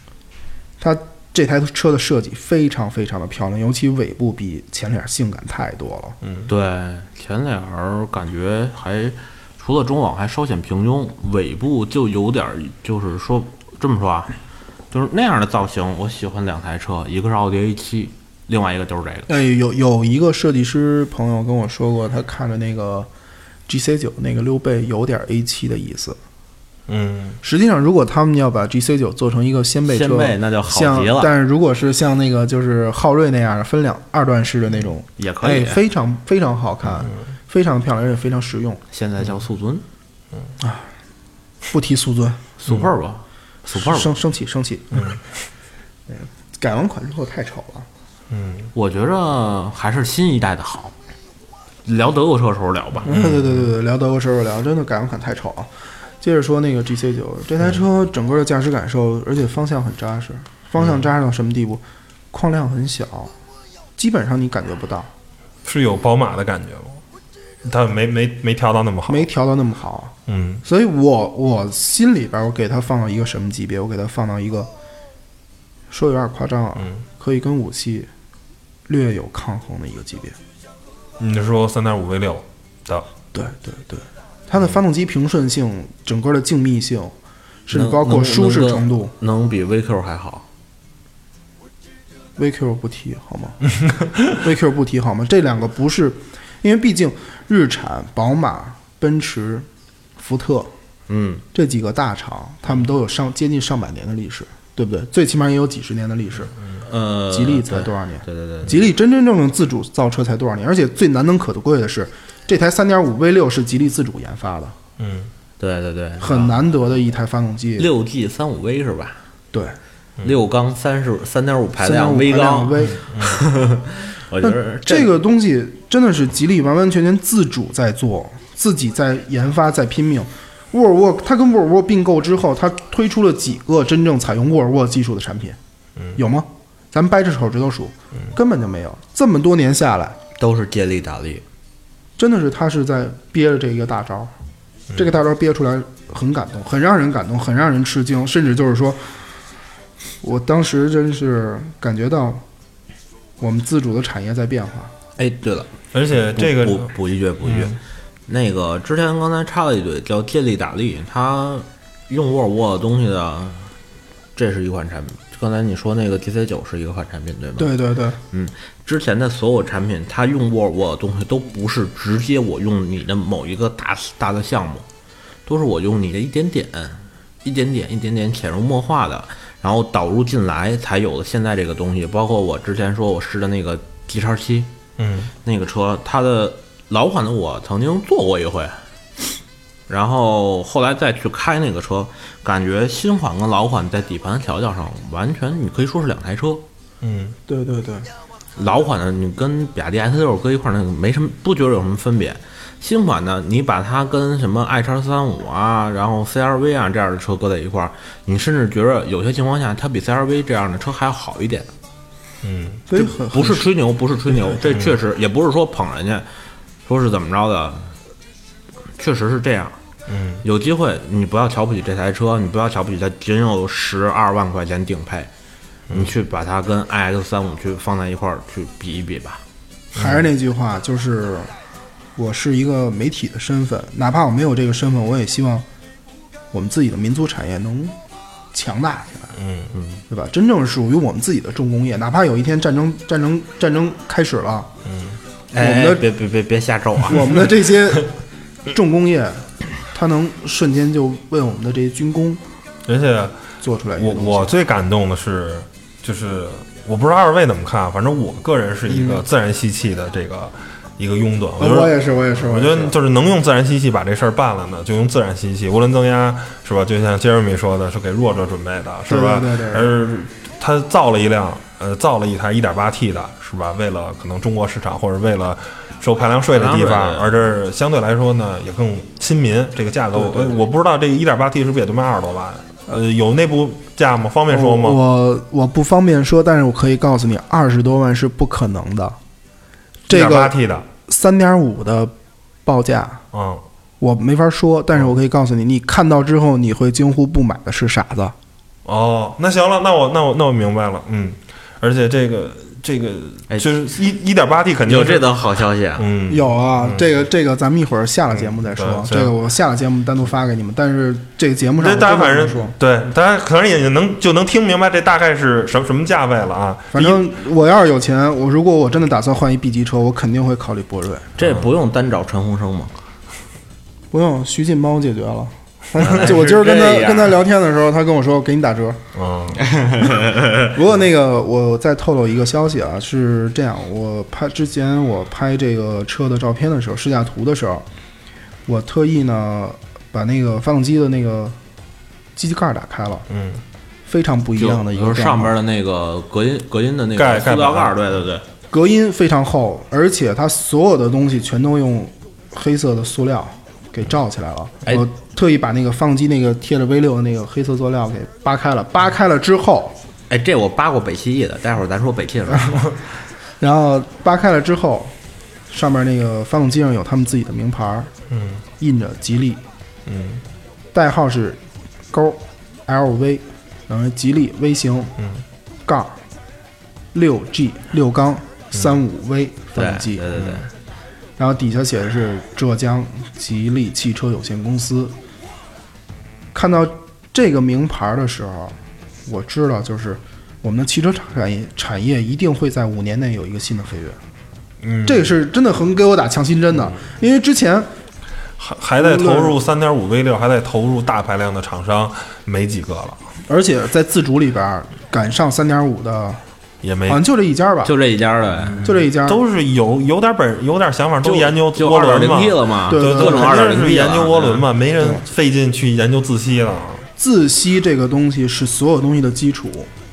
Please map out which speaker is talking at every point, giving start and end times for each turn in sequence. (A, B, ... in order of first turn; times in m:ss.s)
0:00.8-0:06.2 A
0:06.2-0:06.5 B
0:06.5-0:14.4 C
0:14.9-0:19.3 C
0:19.3-0:23.1 A
0:23.7-0:26.2 A
0:26.9-0:27.4 B
0:27.4-0:38.8 A
0:29.9-0:31.3 C
0:35.2-0:35.8 C
0:38.9-0:39.8 C
0:40.6-0:40.9 A
0:41.7-0:42.4 A
0:42.6-0:44.1 C
0:43.8-0:45.1 A
0:46.1-0:47.9 A
0:48.3-0:48.7 B
0:48.7-0:50.9 C
0:51.8-0:53.1 C
0:53.0-0:55.7 A
0:53.1-0:53.6 B
0:56.2-1:03.3 A
1:00.8-1:01.0 B
1:04.0-1:05.1 A
1:05.6-1:07.0 B
1:07.6-1:09.3 B
1:09.1-1:10.1 A
1:10.3-1:10.6 B
1:10.6-1:14.7 A
1:15.9-1:18.1 A
1:18.9-1:20.4 A
1:21.2-1:23.1 B
1:23.3-1:27.1 A
1:27.7-1:29.1 A
1:27.7-1:30.4 C
1:32.4-1:33.6 A
1:34.3-1:39.7 A
1:40.2-1:40.7 A
1:41.1-1:41.4 C
1:41.5-1:46.5 A
1:46.9-1:48.9 C
1:47.3-1:54.8 A
1:55.0-1:55.3 B
1:55.6-1:56.6 C
1:56.2-1:57.9 A
1:57.8-1:59.2 C
2:00.2-2:05.1 C
2:01.8-2:03.0 A
2:03.0-2:03.4 B
2:04.4-2:15.6 A
2:16.2-2:20.2 A
2:20.4-2:21.4 C
2:22.2-2:24.3 A
2:25.0-2:29.2 A
2:30.2-2:32.4 A
2:33.4-2:34.9 A
2:35.2-2:35.7 C
2:35.9-2:36.9 B
2:36.4-2:43.7 C
2:37.4-2:37.8 B
2:44.4-2:47.8 C
2:47.6-2:48.2 A
2:48.3-2:54.9 C
2:55.5-3:04.7 C
3:05.0-3:05.3 B
3:05.4-3:08.8 C
3:09.9-3:16.6 C
3:17.0-3:17.4 B
3:17.5-3:18.1 A
3:18.6-3:31.7 C
3:32.4-3:32.8 B
3:32.9-3:33.7 A
3:33.0-3:36.3 C
3:36.9-3:37.9 C
3:39.0-3:39.8 C
3:40.1-3:40.4 B
3:40.4-3:45.3 C
3:45.9-3:49.4 C
3:50.0-3:50.2 B
3:50.0-3:51.5 A
3:52.2-3:55.6 A
3:56.5-3:58.0 A
3:58.5-3:59.3 A
3:59.4-3:59.7 B
3:59.7-4:00.0 C
4:00.1-4:04.7 A
4:04.8-4:05.2 B
4:05.5-4:07.4 C
4:05.6-4:06.0 A
4:07.1-4:08.1 A
4:08.7-4:12.4 A
4:12.9-4:13.4 B
4:13.6-4:14.5 A
4:14.0-4:45.0 B
4:18.9-4:19.2 A
4:21.6-4:23.0 A
4:29.1-4:29.9 A
4:36.5-4:37.4 C
4:44.5-4:49.2 A
4:50.1-4:52.1 A
4:50.1-4:50.9 B
4:52.6-4:53.2 A
4:53.3-4:53.6 B
4:54.0-4:58.4 A
4:58.8-5:05.3 B
5:04.9-5:06.1 C
5:06.0-5:07.1 B
5:06.3-5:12.7 A
5:08.3-5:09.4 B
5:11.8-5:17.3 B
5:16.9-5:21.3 A
5:21.4-5:22.9 C
5:21.4-5:21.7 B
5:24.1-5:29.0 A
5:26.0-5:27.4 C
5:29.2-5:29.6 B
5:29.6-5:30.7 C
5:30.7-5:37.9 A
5:38.7-5:41.6 A
5:42.4-5:43.3 A
5:43.3-5:43.6 B
5:44.1-5:45.6 A
5:44.6-5:48.4 C
5:47.2-5:48.1 B
5:48.7-6:00.0 A
6:00.3-6:02.9 C
6:03.6-6:05.2 A
6:05.7-6:08.1 A
6:08.3-6:08.6 B
6:08.8-6:09.6 A
6:10.1-6:10.4 B
6:10.9-6:11.6 A
6:12.1-6:15.1 A
6:15.9-6:16.2 A
6:17.1-6:20.3 A
6:19.8-6:20.7 C
6:20.4-6:20.6 B
6:21.4-6:25.1 A
6:26.5-6:34.2 A
6:34.8-6:35.3 B
6:35.0-6:37.9 A
6:38.6-6:43.2 B
6:39.0-6:39.6 A
6:43.5-6:46.4 A
6:46.8-6:47.2 B
6:47.1-6:47.9 A
6:47.8-6:48.9 C
6:48.7-6:57.1 B
6:48.8-6:49.4 A
6:51.2-6:54.7 C
6:52.9-6:53.6 A
6:57.2-6:59.9 A